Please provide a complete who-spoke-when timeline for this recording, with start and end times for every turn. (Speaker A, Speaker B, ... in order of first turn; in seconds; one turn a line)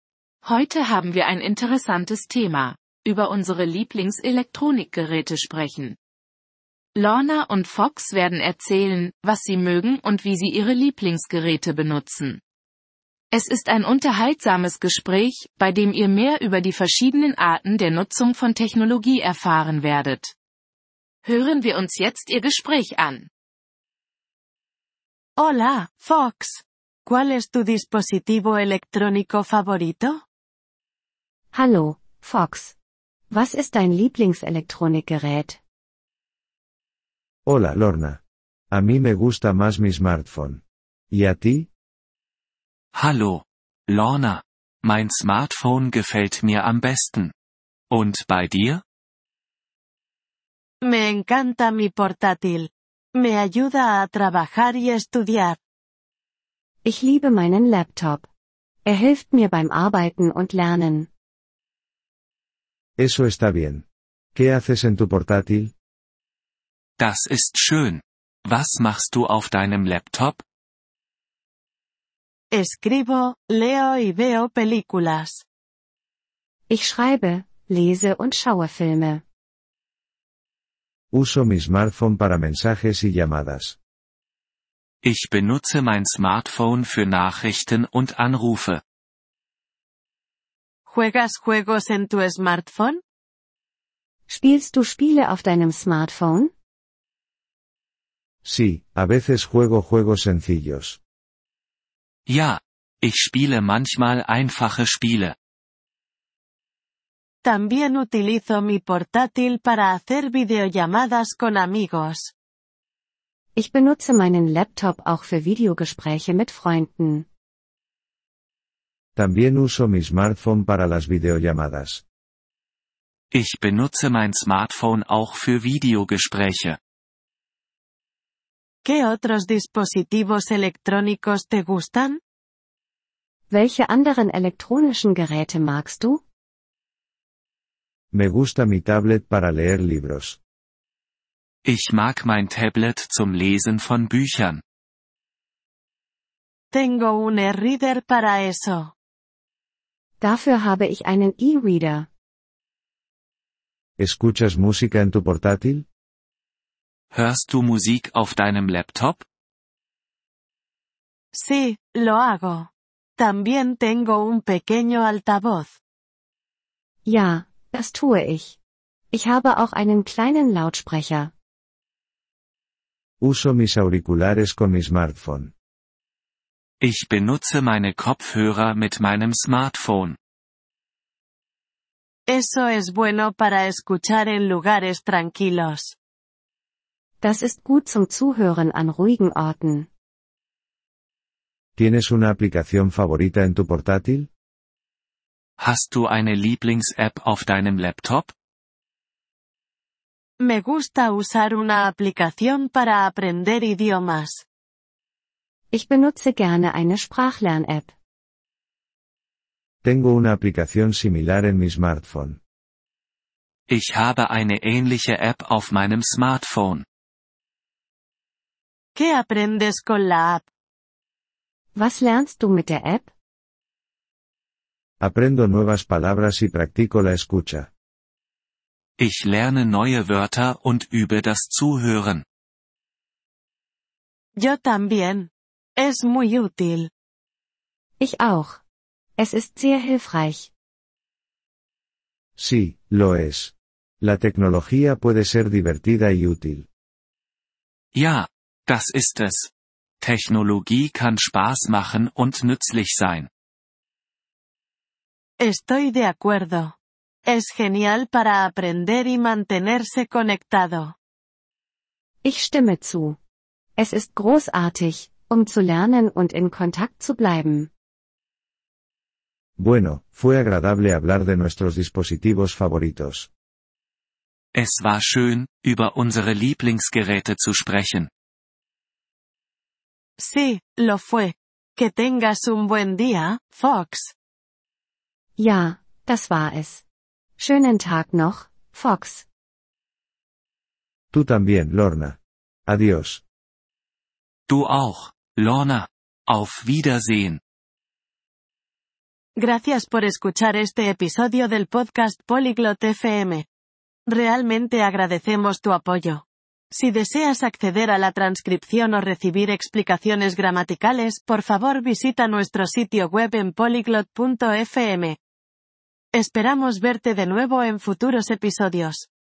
Speaker A: 0.4-6.0
Speaker A: 7.0-12.4
Speaker A: 13.3-20.4
Speaker A: 21.2-23.3
Speaker B: 25.4-30.2
Speaker C: 31.5-32.7
Speaker C: 33.3-35.6
Speaker D: 37.5-38.2
Speaker D: 38.7-41.7
Speaker E: 42.9-47.3
Speaker E: 47.9-48.8
Speaker B: 50.8-55.6
Speaker C: 56.9-58.3
Speaker C: 58.9-61.1
Speaker D: 63.0-63.8
Speaker D: 64.3-65.7
Speaker E: 67.0-70.4
Speaker B: 72.5-75.4
Speaker C: 76.7-79.2
Speaker D: 81.1-83.8
Speaker E: 85.0-88.8
Speaker B: 90.9-93.0
Speaker C: 94.3-96.5
Speaker D: 98.5-101.0
Speaker E: 102.3-105.3
Speaker B: 107.4-112.3
Speaker C: 113.6-117.3
Speaker D: 119.2-122.0
Speaker E: 123.3-126.8
Speaker B: 128.8-132.2
Speaker C: 133.5-136.2
Speaker D: 138.1-140.4
Speaker E: 141.7-144.6
Speaker B: 146.7-148.9
Speaker C: 150.2-152.1
Speaker D: 154.0-155.8
Speaker E: 157.1-159.2
Speaker B: 161.3-165.8
Speaker C: 167.1-168.6
Speaker C: 169.1-171.3
Speaker D: 173.2-175.5
Speaker E: 176.8-180.2
Speaker B: 182.3-186.0
Speaker C: 187.2-189.9
Speaker D: 191.8-194.3
Speaker E: 195.6-198.3
Speaker B: 200.4-204.4
Speaker C: 205.7-207.9
Speaker D: 209.8-212.4
Speaker E: 213.7-216.8
Speaker B: 218.9-220.5
Speaker C: 221.8-223.1
Speaker D: 225.0-227.7
Speaker E: 229.0-232.2
Speaker B: 234.4-236.9
Speaker C: 238.0-238.6
Speaker C: 239.2-240.5
Speaker D: 242.4-246.7
Speaker E: 247.9-253.3
Speaker B: 255.4-256.7
Speaker B: 257.3-260.9
Speaker C: 262.2-263.2
Speaker C: 263.8-267.7
Speaker D: 269.6-273.3
Speaker E: 274.5-278.1
Speaker B: 280.2-284.1
Speaker C: 285.4-286.8
Speaker C: 287.4-289.2
Speaker D: 291.1-293.2
Speaker E: 294.5-297.4
Speaker B: 299.4-303.5
Speaker B: 304.1-315.2
Speaker B: 316.1-319.1